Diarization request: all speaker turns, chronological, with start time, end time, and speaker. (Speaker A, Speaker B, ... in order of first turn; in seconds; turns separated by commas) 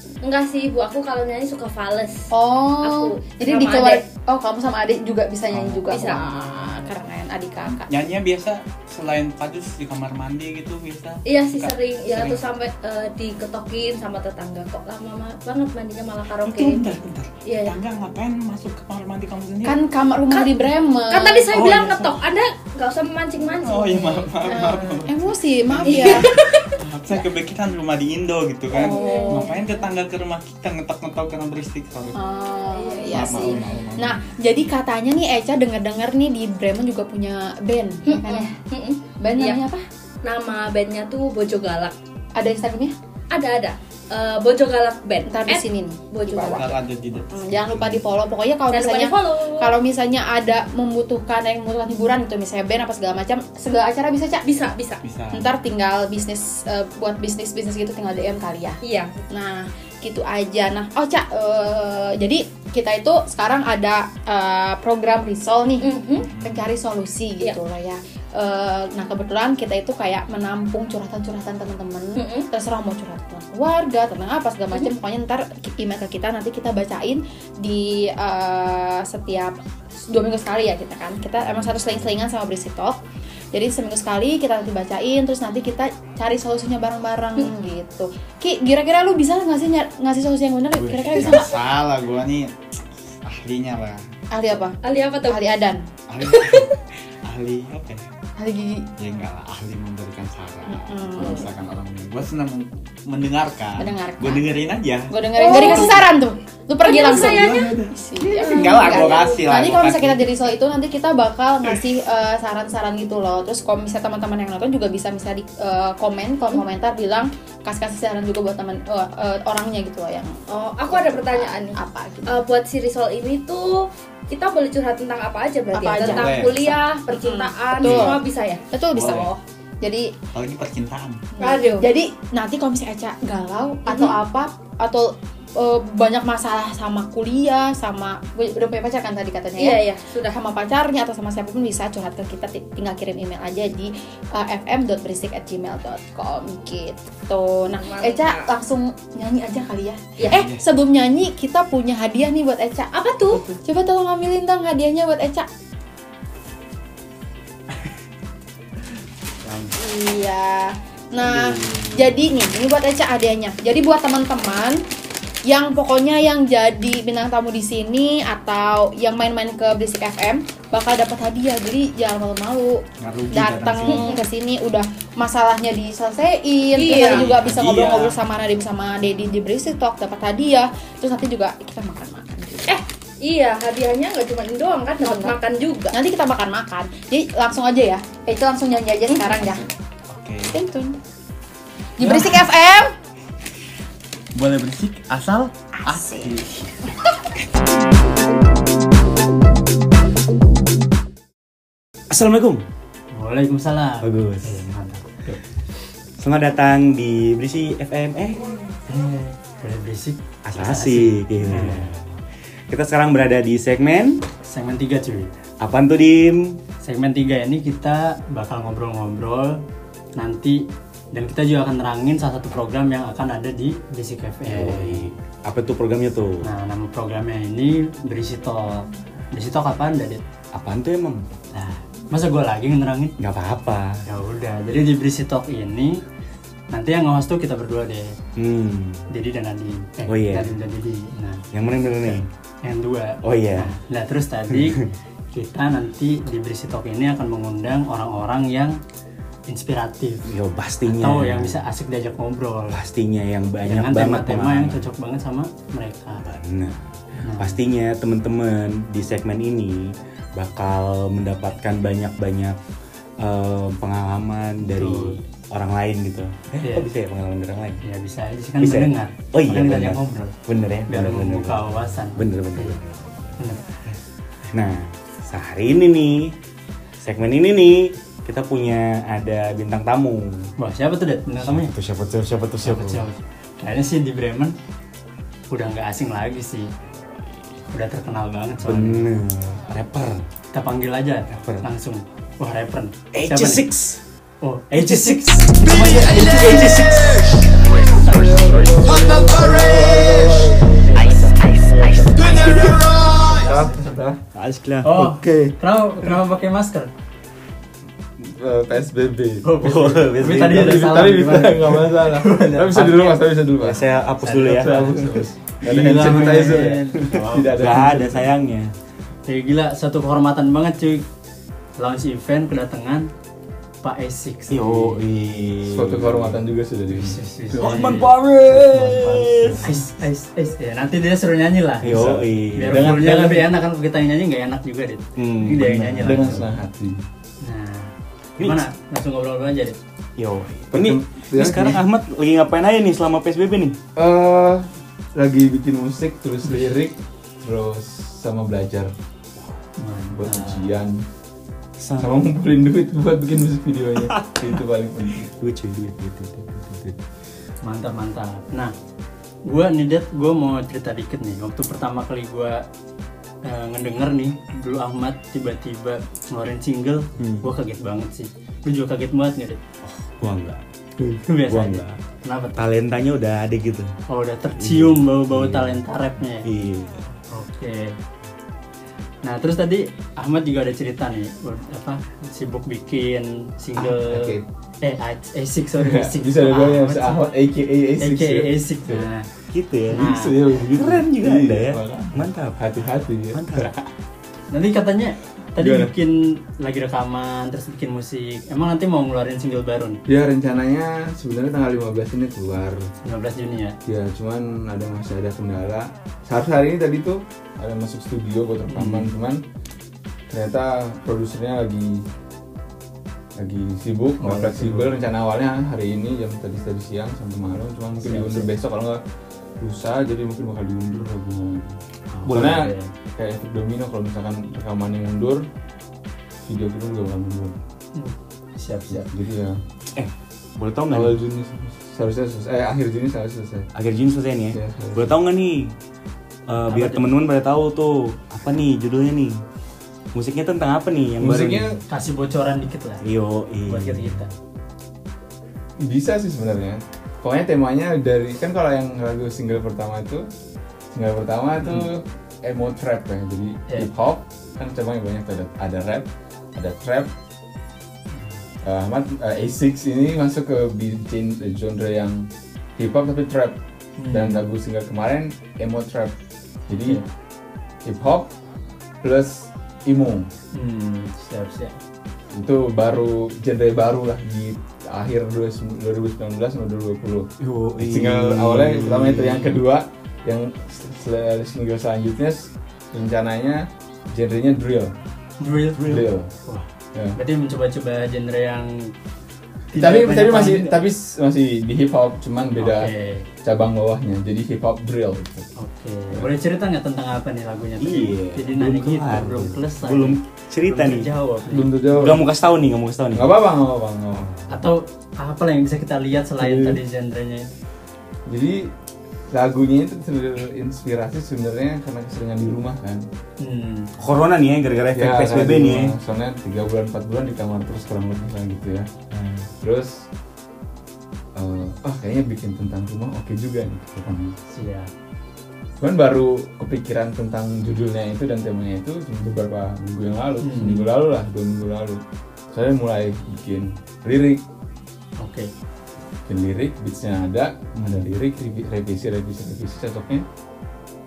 Speaker A: 0.2-2.3, Speaker B: 2.3-8.0, Speaker A: 2.8-4.0, Speaker C: 5.5-5.8, Speaker A: 5.9-6.3, Speaker C: 7.7-12.4, Speaker A: 11.2-16.9, Speaker C: 16.5-19.8, Speaker A: 17.4-17.8, Speaker B: 19.6-21.7, Speaker A: 21.1-24.3, Speaker C: 21.5-22.2, Speaker C: 23.6-32.2, Speaker B: 24.4-26.3, Speaker A: 25.9-26.7, Speaker B: 28.7-29.5, Speaker A: 28.9-29.6, Speaker B: 32.1-38.5, Speaker A: 32.7-33.6, Speaker C: 33.1-34.2, Speaker A: 38.0-39.6, Speaker B: 39.2-39.9, Speaker A: 40.2-42.0, Speaker B: 42.4-43.0, Speaker A: 43.3-46.8, Speaker B: 45.2-54.5, Speaker C: 46.4-48.0, Speaker A: 48.7-49.8, Speaker A: 54.4-55.0, Speaker C: 55.0-55.5, Speaker B: 55.3-58.8, Speaker A: 58.8-59.1, Speaker B: 59.3-83.0, Speaker A: 65.8-66.3, Speaker C: 66.2-66.7, Speaker A: 72.2-72.5, Speaker B: 83.5-91.6, Speaker C: 90.8-92.5, Speaker C: 93.2-94.0, Speaker B: 94.3-95.9, Speaker A: 94.8-95.5, Speaker C: 96.1-98.1, Speaker A: 96.3-96.7, Speaker B: 98.4-98.9, Speaker C: 99.0-106.1, Speaker B: 100.7-101.5, Speaker B: 103.8-104.6, Speaker B: 105.1-122.5, Speaker A: 105.3-106.1, Speaker A: 106.8-109.5, Speaker C: 106.9-110.3, Speaker A: 120.5-128.6, Speaker B: 125.7-130.2, Speaker C: 126.0-126.6, Speaker C: 127.8-128.1, Speaker C: 128.9-129.3, Speaker C: 130.3-131.2, Speaker A: 131.4-131.9, Speaker B: 131.4-155.5, Speaker A: 133.9-134.2, Speaker A: 139.6-140.4, Speaker A: 147.7-148.5, Speaker C: 150.2-150.6, Speaker A: 152.9-153.4, Speaker B: 159.7-164.8, Speaker C: 161.3-161.9, Speaker B: 165.4-182.8, Speaker C: 173.0-174.2, Speaker A: 173.9-174.2, Speaker A: 176.8-177.4, Speaker C: 177.0-178.2, Speaker A: 182.7-186.0, Speaker B: 185.0-185.4, Speaker B: 185.9-189.7, Speaker C: 190.1-190.6, Speaker B: 190.5-191.0, Speaker B: 192.0-192.9, Speaker C: 192.0-192.4, Speaker C: 194.3-196.6, Speaker B: 195.8-196.4, Speaker D: 202.1-202.6, Speaker E: 203.1-205.4, Speaker D: 204.0-204.6, Speaker D: 206.2-208.6, Speaker E: 208.9-211.9, Speaker D: 210.4-212.1, Speaker D: 212.7-214.2, Speaker E: 214.4-215.3, Speaker D: 215.6-216.6, Speaker E: 216.8-219.6, Speaker E: 220.2-225.1, Speaker D: 224.5-226.5, Speaker E: 226.4-230.2, Speaker D: 230.5-231.2, Speaker E: 231.5-233.2, Speaker D: 233.2-234.0, Speaker E: 234.1-236.0, Speaker E: 236.7-238.2, Speaker D: 238.4-239.0, Speaker E: 239.1-241.5, Speaker D: 240.1-240.6, Speaker D: 241.5-242.3, Speaker E: 242.0-248.8, Speaker D: 243.2-243.7, Speaker D: 244.5-244.9, Speaker E: 249.5-250.3, Speaker D: 250.2-251.6, Speaker E: 250.9-252.8, Speaker D: 252.7-254.8, Speaker E: 253.7-256.3, Speaker D: 256.2-262.6, Speaker E: 257.2-257.6, Speaker D: 263.2-267.8, Speaker E: 264.7-265.2, Speaker E: 266.6-266.9, Speaker E: 267.8-270.4, Speaker D: 268.6-273.4, Speaker E: 270.9-272.8, Speaker E: 273.4-273.7, Speaker D: 274.5-276.4, Speaker D: 277.0-280.5, Speaker E: 280.6-281.7, Speaker D: 281.4-283.0, Speaker E: 282.6-284.6, Speaker E: 285.5-286.7, Speaker E: 287.7-289.0, Speaker D: 288.6-290.2, Speaker E: 290.5-293.6, Speaker D: 291.3-291.7, Speaker D: 293.1-294.0, Speaker E: 294.4-296.9, Speaker D: 294.7-297.2, Speaker E: 297.7-299.4, Speaker F: 298.0-304.2, Speaker E: 300.8-303.9, Speaker D: 302.2-303.1, Speaker D: 304.3-305.5, Speaker E: 304.8-306.9, Speaker F: 308.2-309.6, Speaker E: 309.4-313.2, Speaker D: 309.6-310.9, Speaker F: 310.2-313.9, Speaker D: 313.6-315.2, Speaker E: 314.2-315.0, Speaker F: 314.5-318.3, Speaker E: 315.6-317.2, Speaker D: 317.1-318.7, Speaker E: 319.3-321.1, Speaker E: 321.8-323.1, Speaker E: 323.8-325.0, Speaker D: 324.5-326.4, Speaker F: 325.7-329.8, Speaker E: 326.9-328.1, Speaker D: 327.6-329.7, Speaker E: 329.6-336.5, Speaker D: 331.8-333.0, Speaker F: 331.9-333.5, Speaker D: 335.2-336.4, Speaker F: 336.0-337.0, Speaker E: 337.4-339.8, Speaker D: 338.4-338.6, Speaker D: 340.2-343.8, Speaker F: 340.7-341.8, Speaker F: 344.0-348.9, Speaker E: 349.8-350.8, Speaker F: 350.1-351.1, Speaker D: 351.8-352.3, Speaker F: 352.0-355.3, Speaker D: 354.1-354.6, Speaker D: 355.4-357.0, Speaker E: 357.6-358.7, Speaker E: 359.5-362.6, Speaker E: 363.4-369.6, Speaker D: 367.2-367.5, Speaker D: 369.9-372.0, Speaker E: 371.2-372.6, Speaker D: 372.6-373.9, Speaker E: 374.1-376.5, Speaker D: 374.6-375.8, Speaker D: 376.4-377.1, Speaker E: 377.3-378.0, Speaker E: 379.2-387.3, Speaker F: 383.8-384.5, Speaker F: 385.8-389.1, Speaker E: 388.0-389.3, Speaker D: 389.5-393.8, Speaker E: 389.9-390.4, Speaker F: 390.0-393.8, Speaker E: 394.5-400.0, Speaker F: 395.6-395.9, Speaker F: 400.1-402.9, Speaker E: 403.0-403.8, Speaker F: 403.9-409.4, Speaker E: 408.7-409.1, Speaker F: 410.3-412.1, Speaker F: 413.4-419.0, Speaker E: 414.2-415.0, Speaker E: 418.0-418.5, Speaker F: 419.6-425.5, Speaker E: 422.1-422.9, Speaker D: 422.3-422.6, Speaker F: 426.4-427.6, Speaker E: 427.9-429.1, Speaker F: 428.9-429.6, Speaker D: 429.9-431.2, Speaker F: 430.9-433.7, Speaker D: 433.8-435.7, Speaker F: 434.5-435.2, Speaker D: 436.5-439.4, Speaker E: 436.7-437.1, Speaker D: 440.1-441.8, Speaker F: 441.2-441.8, Speaker E: 441.9-443.1, Speaker D: 443.0-444.2, Speaker E: 443.7-444.3, Speaker F: 445.8-450.3, Speaker F: 450.9-457.1, Speaker F: 458.6-466.1, Speaker E: 464.0-464.4, Speaker F: 466.7-467.0, Speaker F: 467.9-468.3, Speaker F: 469.0-470.3, Speaker E: 470.5-471.8, Speaker F: 472.3-484.9, Speaker D: 477.4-479.6, Speaker E: 485.4-485.9, Speaker D: 485.8-486.1, Speaker F: 485.8-486.3, Speaker E: 486.5-488.9, Speaker E: 489.7-490.8, Speaker F: 489.8-492.9, Speaker E: 492.6-493.3, Speaker F: 493.4-495.5, Speaker E: 495.6-501.9, Speaker D: 497.8-501.1, Speaker F: 501.5-502.3, Speaker D: 501.9-503.4, Speaker F: 503.1-504.3, Speaker D: 504.1-504.5, Speaker E: 504.5-507.5, Speaker F: 506.4-506.8, Speaker F: 508.3-508.7, Speaker F: 509.3-513.0, Speaker E: 513.4-513.9, Speaker D: 514.0-515.9, Speaker F: 514.9-518.9, Speaker D: 519.1-519.5, Speaker F: 519.6-520.1, Speaker F: 521.4-524.4, Speaker E: 524.5-524.9, Speaker F: 525.8-534.4, Speaker E: 530.4-530.9, Speaker E: 535.2-535.5, Speaker F: 536.3-540.3